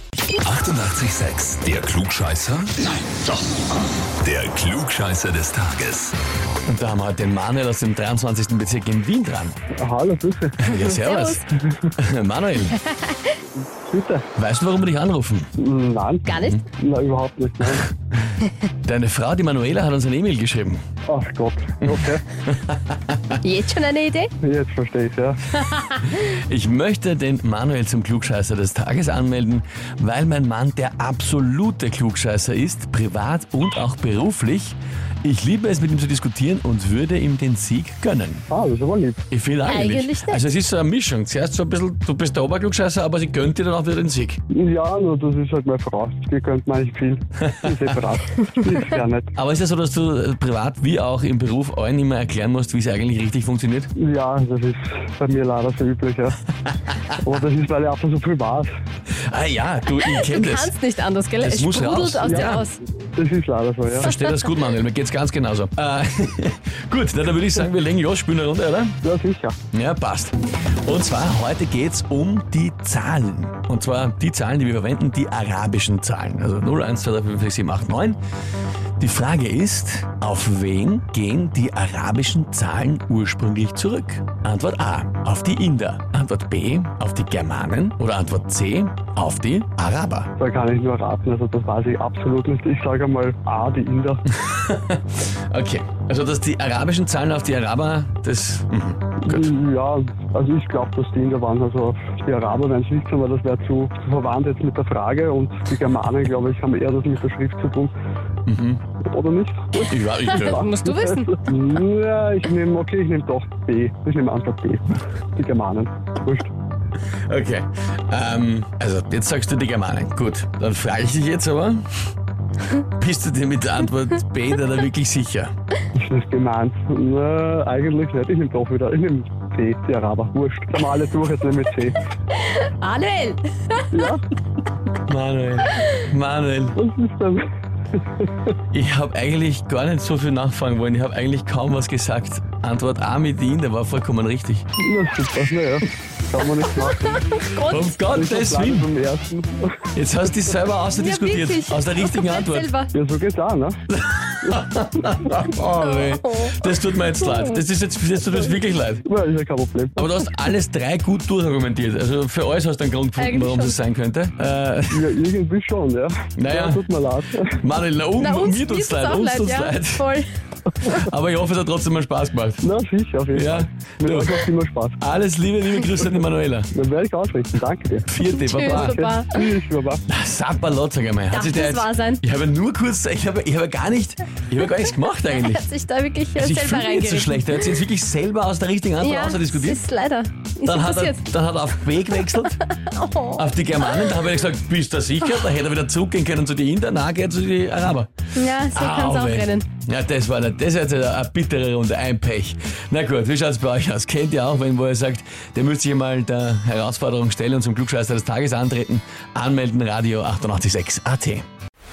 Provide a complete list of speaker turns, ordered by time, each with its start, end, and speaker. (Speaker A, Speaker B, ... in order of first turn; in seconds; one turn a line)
Speaker A: 0.4-3.3
Speaker A: 4.2-6.2
Speaker B: 6.7-9.6
Speaker C: 9.8-10.7
Speaker B: 10.6-12.8
Speaker D: 10.8-11.4
Speaker D: 12.9-13.2
Speaker C: 13.8-14.3
Speaker B: 14.3-15.5
Speaker C: 15.6-17.9
Speaker D: 16.2-16.6
Speaker B: 16.3-16.6
Speaker B: 18.8-20.8
Speaker C: 21.1-22.2
Speaker B: 21.8-23.4
Speaker D: 23.4-24.3
Speaker C: 24.4-25.4
Speaker B: 25.8-38.5
Speaker C: 38.5-39.2
Speaker B: 39.3-44.4
Speaker D: 39.6-40.4
Speaker C: 44.5-49.3
Speaker B: 47.4-47.9
Speaker B: 49.4-53.9
Speaker C: 54.0-56.4
Speaker C: 57.2-58.7
Speaker B: 59.3-60.8
Speaker D: 60.0-62.8
Speaker B: 61.4-62.6
Speaker C: 62.2-62.6
Speaker C: 63.1-64.1
Speaker B: 63.9-69.0
Speaker C: 69.0-69.6
Speaker B: 69.7-78.2
Speaker B: 79.0-90.3
Speaker C: 90.4-94.2
Speaker B: 94.3-99.5
Speaker C: 99.2-107.9
Speaker B: 108.5-108.8
Speaker C: 109.1-116.5
Speaker B: 109.8-110.7
Speaker D: 110.2-111.4
Speaker B: 117.2-121.9
Speaker B: 122.9-125.5
Speaker C: 125.9-132.0
Speaker D: 132.4-134.1
Speaker C: 133.9-134.2
Speaker B: 135.0-136.8
Speaker C: 136.7-137.4
Speaker C: 138.0-138.3
Speaker B: 138.7-144.7
Speaker C: 144.8-147.2
Speaker D: 147.0-147.9
Speaker B: 147.6-148.9
Speaker C: 148.1-149.9
Speaker B: 149.9-152.7
Speaker D: 150.9-152.9
Speaker C: 152.9-153.8
Speaker B: 153.9-159.0
Speaker D: 155.8-157.5
Speaker C: 159.0-160.2
Speaker B: 160.0-165.1
Speaker D: 163.2-163.8
Speaker C: 164.9-167.6
Speaker B: 166.4-166.9
Speaker B: 167.5-170.1
Speaker D: 168.2-170.3
Speaker B: 170.8-172.6
Speaker C: 172.6-175.0
Speaker B: 173.3-176.7
Speaker C: 176.7-178.1
Speaker B: 178.1-179.0
Speaker D: 178.3-179.4
Speaker C: 178.6-180.0
Speaker B: 180.1-185.7
Speaker D: 181.3-182.2
Speaker D: 185.3-187.6
Speaker B: 186.3-189.8
Speaker D: 189.0-191.2
Speaker B: 190.6-192.6
Speaker D: 192.4-194.1
Speaker B: 193.3-198.1
Speaker D: 198.3-199.6
Speaker B: 198.7-211.4